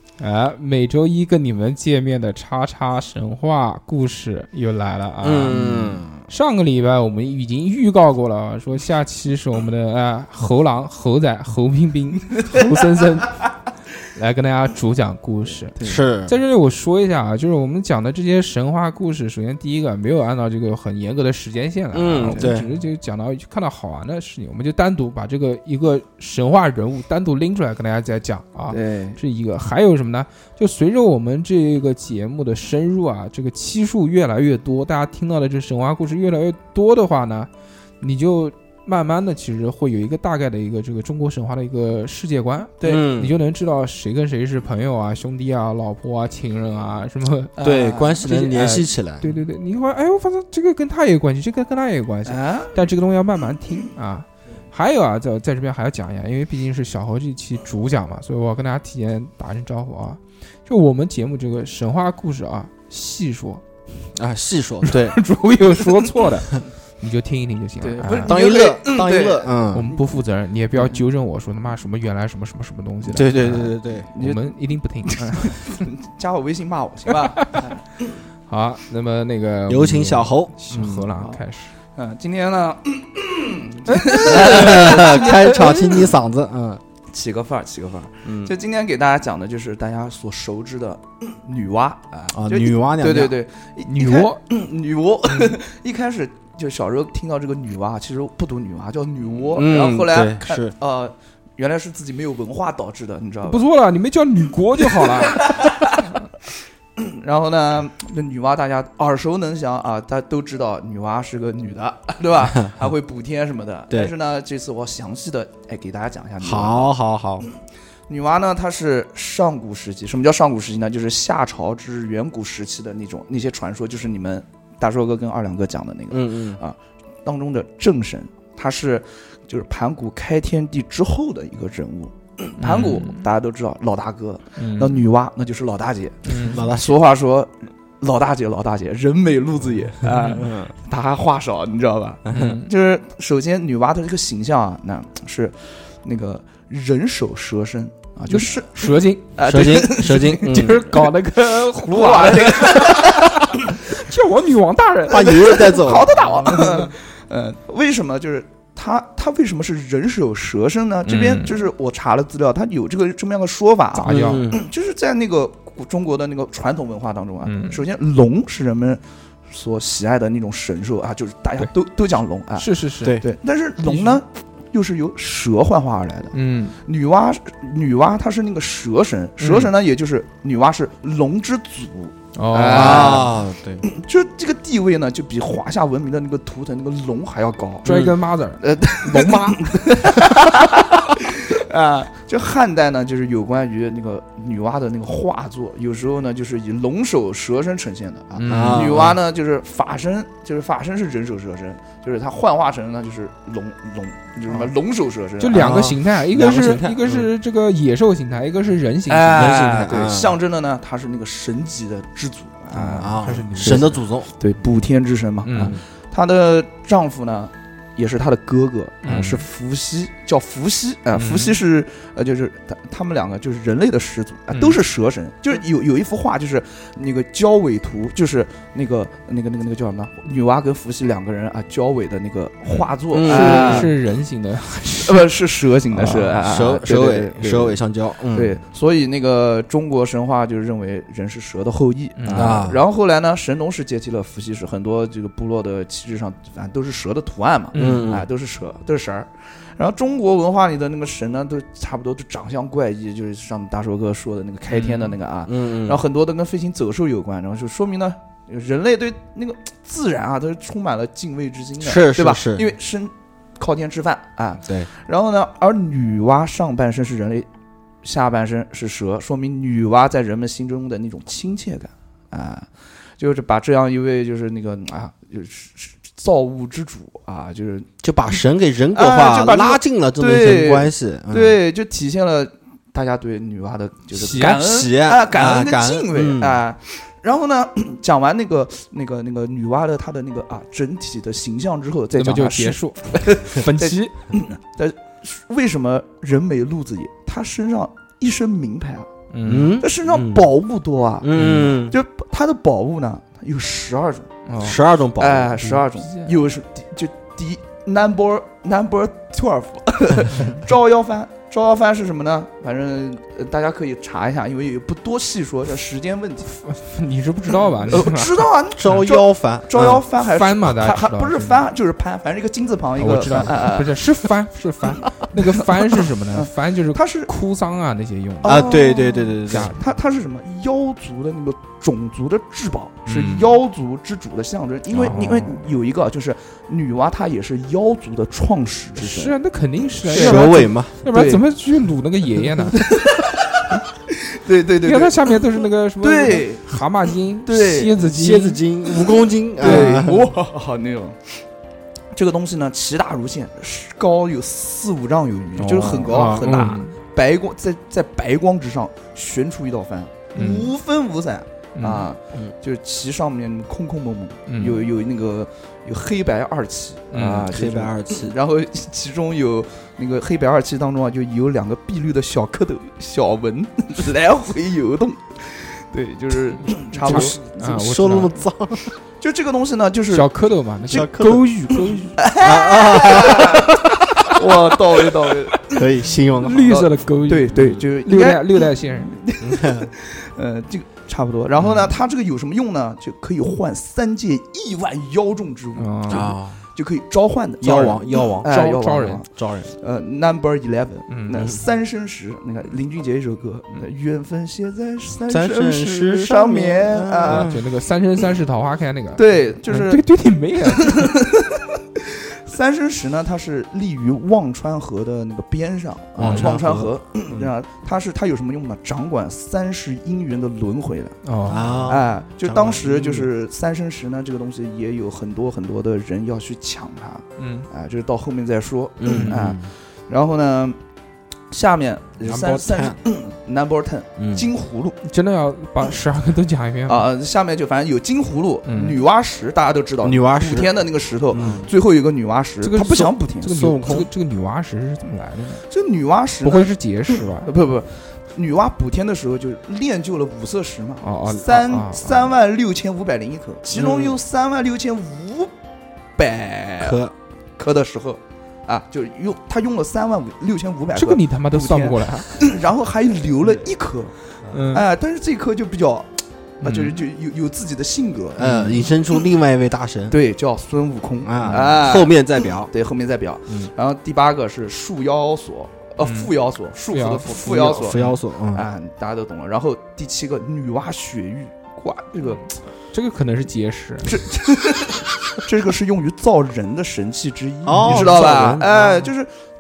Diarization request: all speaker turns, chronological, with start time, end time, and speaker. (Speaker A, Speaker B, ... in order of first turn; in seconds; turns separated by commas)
Speaker A: 0.2-13.5, Speaker B: 5.2-6.2, Speaker A: 14.0-37.5, Speaker B: 15.8-16.3, Speaker B: 21.9-22.7, Speaker C: 28.7-29.2, Speaker A: 38.0-47.5, Speaker C: 42.8-43.1, Speaker B: 42.8-43.4, Speaker C: 47.5-48.3, Speaker B: 47.6-49.4, Speaker A: 48.2-63.6, Speaker C: 52.2-52.8, Speaker B: 64.1-65.2, Speaker A: 64.8-68.4, Speaker C: 67.8-69.5, Speaker B: 68.2-70.0, Speaker A: 69.7-75.9, Speaker B: 73.1-74.1, Speaker C: 74.1-74.4, Speaker C: 75.1-78.1, Speaker A: 78.5-81.7, Speaker B: 79.7-81.0, Speaker C: 81.1-81.4, Speaker C: 81.9-86.0, Speaker A: 83.9-85.8, Speaker B: 84.2-86.8, Speaker C: 87.1-103.6, Speaker B: 88.2-88.5, Speaker B: 92.3-93.3, Speaker A: 93.9-94.4, Speaker A: 95.3-95.6, Speaker B: 99.5-100.7, Speaker A: 103.4-105.7, Speaker C: 104.9-106.1, Speaker C: 107.0-116.9, Speaker B: 116.4-117.5, Speaker C: 118.1-150.9, Speaker B: 126.1-126.6, Speaker A: 132.6-133.2, Speaker A: 134.6-135.0, Speaker A: 136.3-136.6, Speaker B: 136.5-137.0, Speaker A: 140.1-140.5, Speaker B: 142.3-142.6, Speaker A: 142.3-142.7, Speaker A: 148.3-149.3, Speaker B: 149.4-150.9, Speaker A: 150.1-155.8, Speaker C: 151.9-153.8, Speaker B: 155.1-156.1, Speaker C: 155.1-187.9, Speaker A: 156.4-156.9, Speaker A: 161.1-161.6, Speaker A: 164.0-164.5, Speaker B: 164.1-164.6, Speaker A: 167.4-167.8, Speaker A: 172.6-173.2, Speaker A: 173.9-174.2, Speaker A: 176.3-176.8, Speaker A: 179.4-179.7, Speaker A: 182.3-183.3, Speaker B: 182.6-183.8, Speaker A: 187.8-188.6, Speaker B: 187.8-188.2, Speaker C: 188.6-205.8, Speaker B: 189.0-189.7, Speaker B: 198.3-199.2, Speaker A: 198.4-199.1, Speaker A: 205.4-209.5, Speaker B: 205.5-207.3, Speaker C: 209.1-233.9, Speaker B: 209.3-210.3, Speaker A: 212.8-214.0, Speaker B: 212.9-214.3, Speaker A: 215.4-215.7, Speaker B: 215.6-215.8, Speaker A: 219.0-219.4, Speaker B: 219.1-219.4, Speaker A: 221.1-221.6, Speaker A: 224.5-224.8, Speaker A: 232.7-235.3, Speaker B: 233.1-233.9, Speaker C: 235.0-237.8, Speaker B: 235.9-238.5, Speaker C: 238.3-267.5, Speaker A: 242.2-242.6, Speaker B: 242.3-242.8, Speaker A: 247.7-248.1, Speaker B: 247.7-248.2, Speaker A: 254.7-255.1, Speaker B: 255.4-256.0, Speaker B: 261.8-262.7, Speaker C: 268.0-277.9, Speaker B: 278.0-281.6, Speaker C: 278.9-299.1, Speaker A: 284.1-284.6, Speaker B: 284.4-286.6, Speaker A: 292.1-294.3, Speaker A: 299.3-299.8, Speaker B: 299.4-300.5, Speaker C: 299.7-304.3, Speaker B: 301.2-301.9, Speaker A: 301.3-301.7, Speaker A: 304.4-304.8, Speaker B: 304.6-305.8, Speaker C: 305.2-316.5, Speaker A: 305.9-306.3, Speaker A: 316.5-319.0, Speaker C: 317.9-324.0, Speaker B: 318.7-320.0, Speaker A: 320.2-321.7, Speaker A: 323.0-328.7, Speaker C: 325.3-327.3, Speaker C: 328.4-339.3, Speaker B: 328.4-329.8, Speaker A: 329.4-329.8, Speaker A: 333.1-333.5, Speaker A: 335.0-335.6, Speaker A: 338.9-342.9, Speaker C: 340.1-340.5, Speaker B: 340.1-340.9, Speaker C: 341.1-341.4, Speaker C: 342.7-345.4, Speaker A: 344.8-348.6, Speaker C: 346.0-346.8, Speaker C: 347.4-347.9, Speaker B: 348.0-350.2, Speaker C: 349.6-351.4, Speaker A: 349.6-350.0, Speaker C: 352.1-377.4, Speaker A: 355.6-356.9, Speaker B: 355.7-356.6, Speaker A: 360.3-360.7, Speaker A: 361.7-362.1, Speaker A: 364.5-364.8, Speaker A: 367.1-367.5, Speaker B: 367.4-368.4, Speaker A: 376.9-378.4, Speaker B: 377.0-378.9, Speaker C: 379.2-380.3, Speaker A: 380.1-382.2, Speaker B: 380.9-381.5, Speaker C: 382.2-385.9, Speaker B: 382.4-384.2, Speaker B: 385.6-386.9, Speaker A: 386.2-389.1, Speaker C: 386.6-407.5, Speaker B: 389.4-389.9, Speaker A: 395.8-396.3, Speaker B: 396.1-396.6, Speaker B: 397.6-398.5, Speaker A: 398.4-399.2, Speaker B: 399.4-399.7, Speaker A: 401.1-401.4, Speaker B: 405.3-407.6, Speaker A: 407.3-411.1, Speaker C: 409.1-410.0, Speaker C: 410.6-421.2, Speaker B: 416.2-417.5, Speaker A: 416.2-416.5, Speaker A: 421.2-421.8, Speaker B: 421.5-423.3, Speaker C: 421.9-430.8, Speaker A: 427.4-427.7, Speaker B: 429.0-429.7, Speaker A: 429.1-429.4, Speaker C: 431.5-435.0, Speaker B: 432.2-433.0, Speaker B: 434.2-434.5, Speaker A: 435.0-437.1, Speaker C: 436.9-443.5, Speaker A: 438.6-439.0, Speaker B: 440.0-440.7, Speaker B: 441.3-441.7, Speaker A: 442.6-445.6, Speaker B: 443.5-444.1, Speaker C: 445.7-455.5, Speaker A: 446.4-447.5, Speaker A: 451.0-452.3, Speaker B: 453.7-454.2, Speaker C: 456.2-457.0, Speaker B: 456.8-457.1, Speaker C: 457.6-464.1, Speaker A: 460.9-462.3, Speaker A: 464.5-464.9, Speaker C: 464.7-468.5, Speaker A: 466.6-467.0, Speaker B: 468.4-470.2, Speaker A: 468.4-468.8, Speaker C: 470.1-478.0, Speaker B: 471.2-472.7, Speaker A: 476.0-476.3, Speaker A: 476.9-478.2, Speaker B: 477.4-478.6, Speaker C: 478.5-482.5, Speaker A: 482.9-484.1, Speaker C: 484.0-489.3, Speaker B: 487.6-489.1, Speaker A: 487.7-488.2